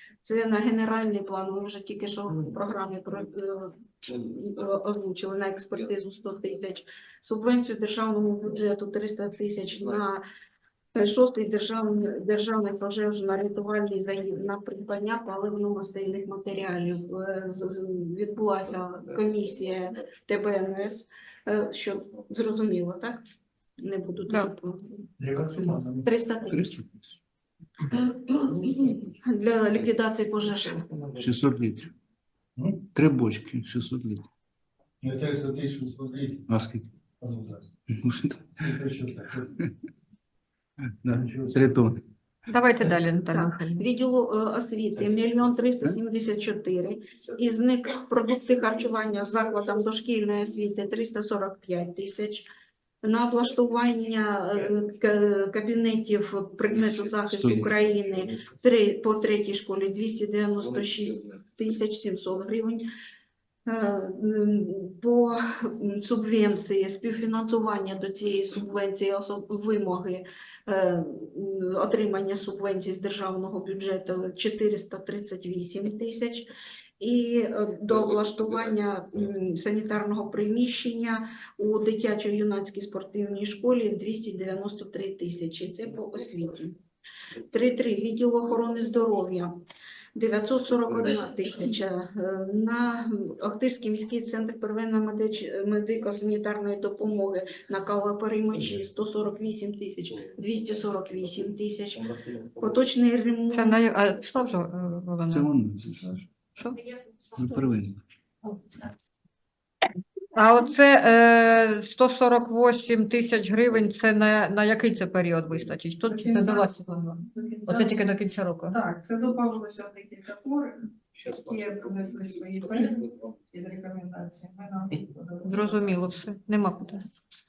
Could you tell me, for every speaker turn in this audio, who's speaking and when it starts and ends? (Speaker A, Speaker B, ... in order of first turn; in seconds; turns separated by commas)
Speaker A: 0.2-10.2, Speaker A: 10.9-23.2, Speaker A: 23.8-25.0, Speaker B: 25.2-26.1, Speaker A: 26.1-26.8, Speaker A: 27.9-31.2, Speaker C: 31.3-31.9, Speaker C: 33.0-34.2, Speaker B: 35.0-36.5, Speaker C: 36.5-36.8, Speaker B: 37.2-37.7, Speaker C: 38.0-38.4, Speaker B: 38.6-39.5, Speaker C: 41.1-41.8, Speaker B: 41.1-41.6, Speaker D: 42.5-43.9, Speaker A: 43.3-52.5, Speaker A: 53.0-62.9, Speaker C: 57.4-57.7, Speaker A: 63.7-76.5, Speaker A: 77.0-86.8, Speaker A: 87.5-89.5, Speaker A: 90.2-103.8, Speaker D: 103.5-105.5, Speaker C: 105.3-106.2, Speaker C: 107.4-107.9, Speaker D: 110.3-118.8, Speaker E: 116.1-116.7, Speaker E: 117.3-118.0, Speaker E: 118.7-125.8, Speaker D: 125.5-127.0